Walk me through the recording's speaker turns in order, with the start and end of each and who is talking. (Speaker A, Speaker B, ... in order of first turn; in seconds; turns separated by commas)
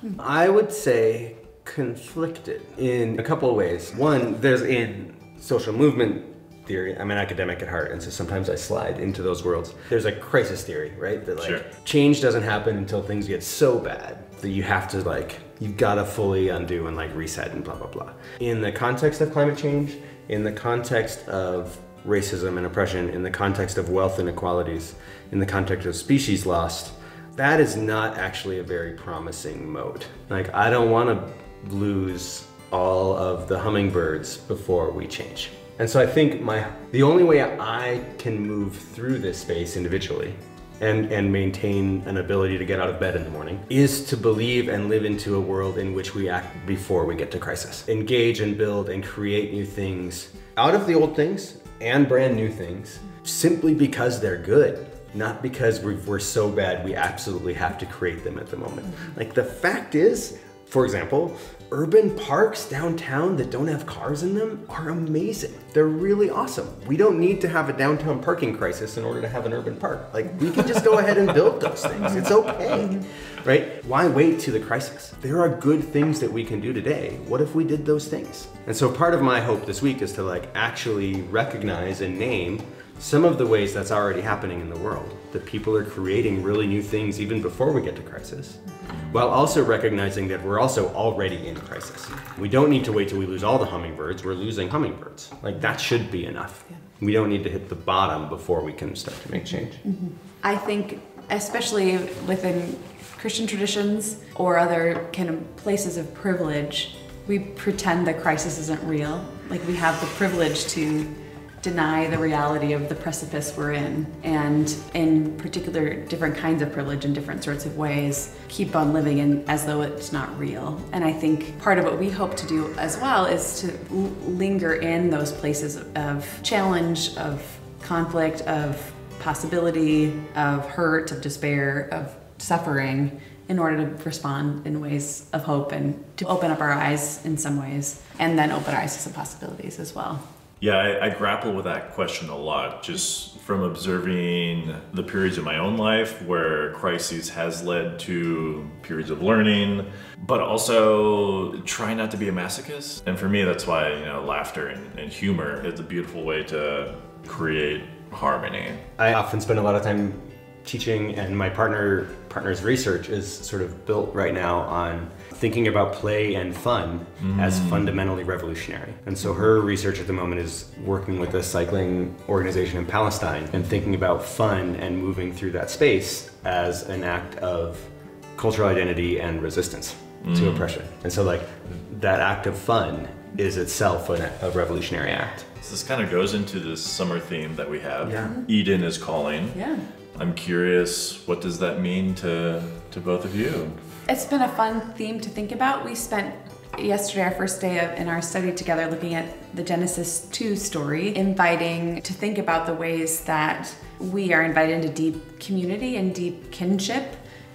Speaker A: 0.2-99.8, Speaker B: 11.4-11.6, Speaker C: 72.0-72.3, Speaker C: 99.4-140.2, Speaker B: 140.6-158.8, Speaker A: 159.0-185.4, Speaker B: 167.2-167.9, Speaker B: 180.2-180.7, Speaker B: 185.6-189.6, Speaker A: 188.0-188.3, Speaker C: 188.2-188.5, Speaker C: 189.5-189.8, Speaker B: 190.2-193.8, Speaker C: 194.1-207.2